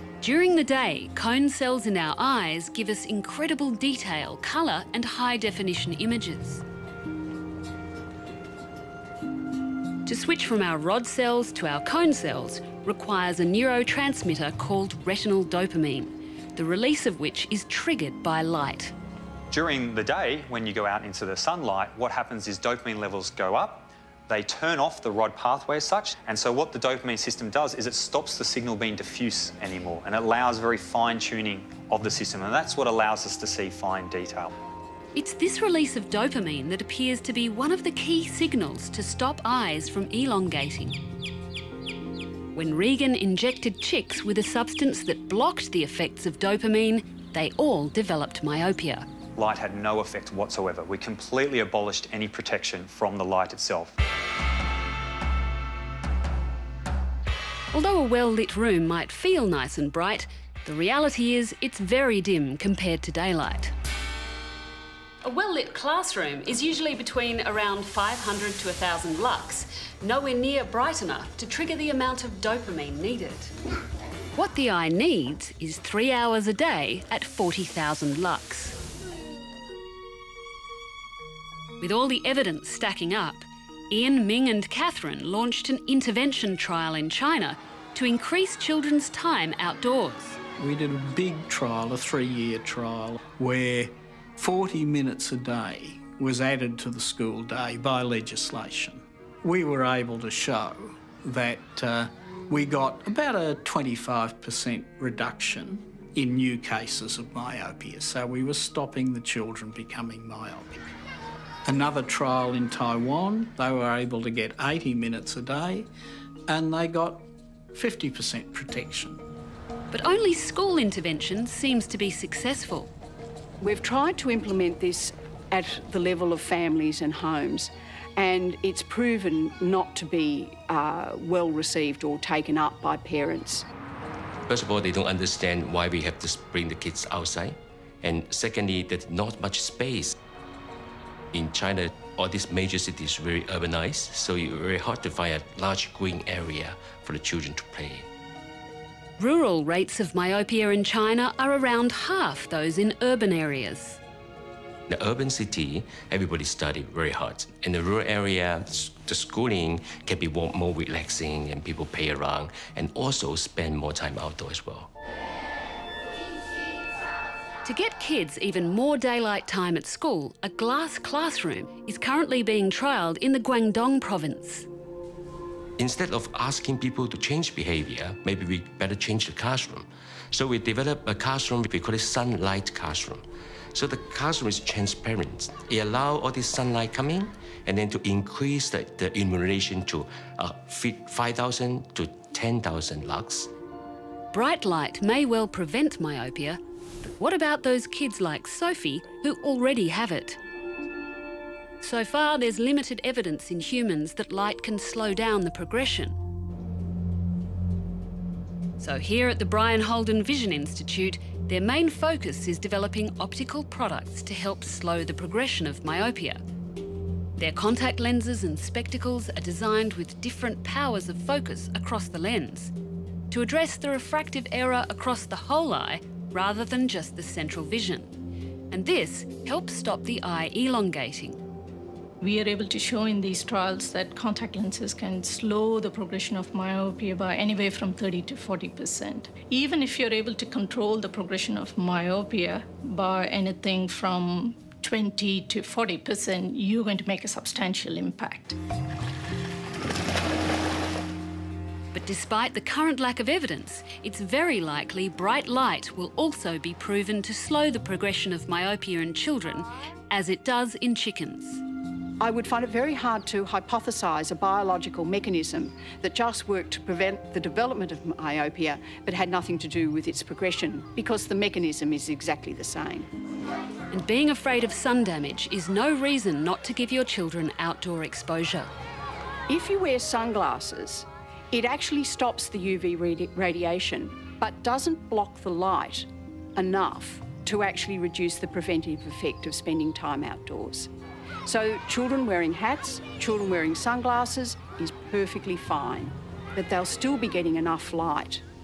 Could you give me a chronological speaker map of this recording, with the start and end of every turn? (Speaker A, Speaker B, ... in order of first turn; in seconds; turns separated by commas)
Speaker A: 0.2-6.6, Speaker A: 10.1-18.9, Speaker B: 19.5-34.5, Speaker A: 35.1-41.0, Speaker A: 42.5-49.1, Speaker B: 49.4-53.9, Speaker A: 57.7-63.7, Speaker A: 65.2-73.5, Speaker A: 74.3-78.8, Speaker A: 81.8-90.4, Speaker C: 90.6-110.9, Speaker C: 111.7-115.9, Speaker C: 116.5-119.2, Speaker A: 119.9-122.9, Speaker D: 123.6-133.7, Speaker E: 134.5-140.2, Speaker E: 141.3-148.1, Speaker A: 149.2-154.0, Speaker E: 154.9-164.9, Speaker A: 167.6-174.7, Speaker E: 175.8-193.5, Speaker A: 194.3-200.4, Speaker A: 201.8-206.2, Speaker A: 208.8-216.4, Speaker A: 217.4-222.7, Speaker A: 223.3-228.1, Speaker A: 228.7-231.4, Speaker F: 232.2-248.6, Speaker A: 251.9-261.6, Speaker D: 262.2-273.1, Speaker A: 273.9-278.7, Speaker D: 279.5-290.9, Speaker D: 291.4-298.4